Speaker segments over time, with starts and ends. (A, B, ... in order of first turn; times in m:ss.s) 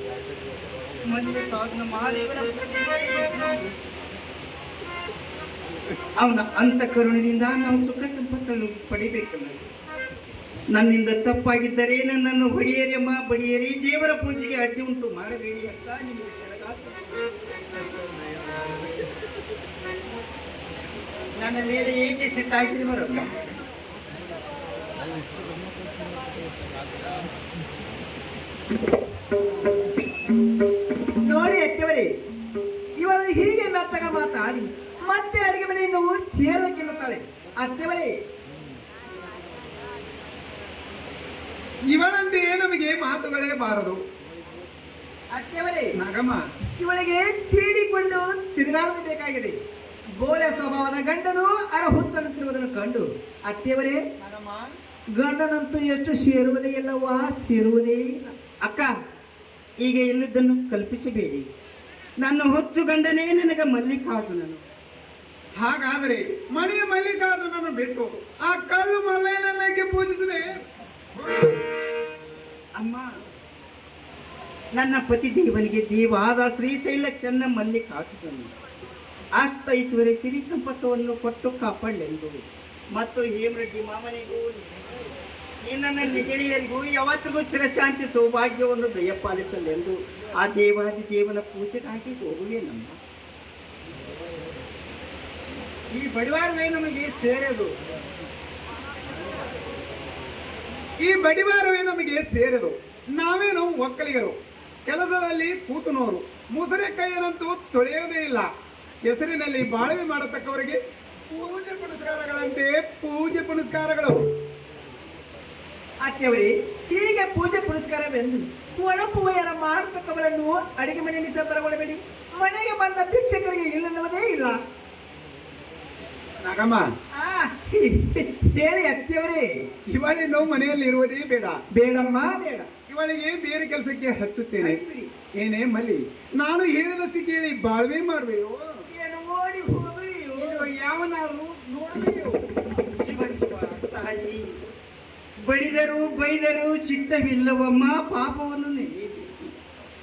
0:01.0-0:03.7 A
0:06.2-0:09.7 A
0:10.7-0:17.2 A
0:21.4-0:23.3 A
0:31.2-0:32.1 B
0:33.0-0:38.2 B
0:41.9-0:44.0 C
0:45.3-0:45.9 B
0:46.0-0:46.4 C
0:46.8-0:49.6 B
0:50.2-0:54.1 B
0:54.2-0:54.7 C
0:55.2-0:58.3 B
0:58.6-0:58.9 A
0:59.8-1:01.5 A
1:02.2-1:04.6 A
1:05.6-1:10.5 C
1:11.2-1:11.6 C
1:12.8-1:13.1 A
1:14.8-1:18.5 A
1:19.4-1:22.4 A
1:23.0-1:24.7 A
1:25.6-1:33.0 A
1:35.9-1:37.7 C
1:41.0-1:44.4 C
1:44.9-1:48.5 C
1:49.1-1:50.8 C
1:51.3-1:54.2 C
1:56.0-2:04.6 B
2:06.4-2:06.9 C
2:07.2-2:09.5 B
2:09.9-2:11.6 C
2:11.7-2:12.7 B
2:12.9-2:14.8 C
2:14.6-2:15.1 B
2:15.4-2:18.7 C
2:18.9-2:20.7 B
2:20.4-2:22.4 C
2:22.8-2:24.6 A
2:25.4-2:29.6 A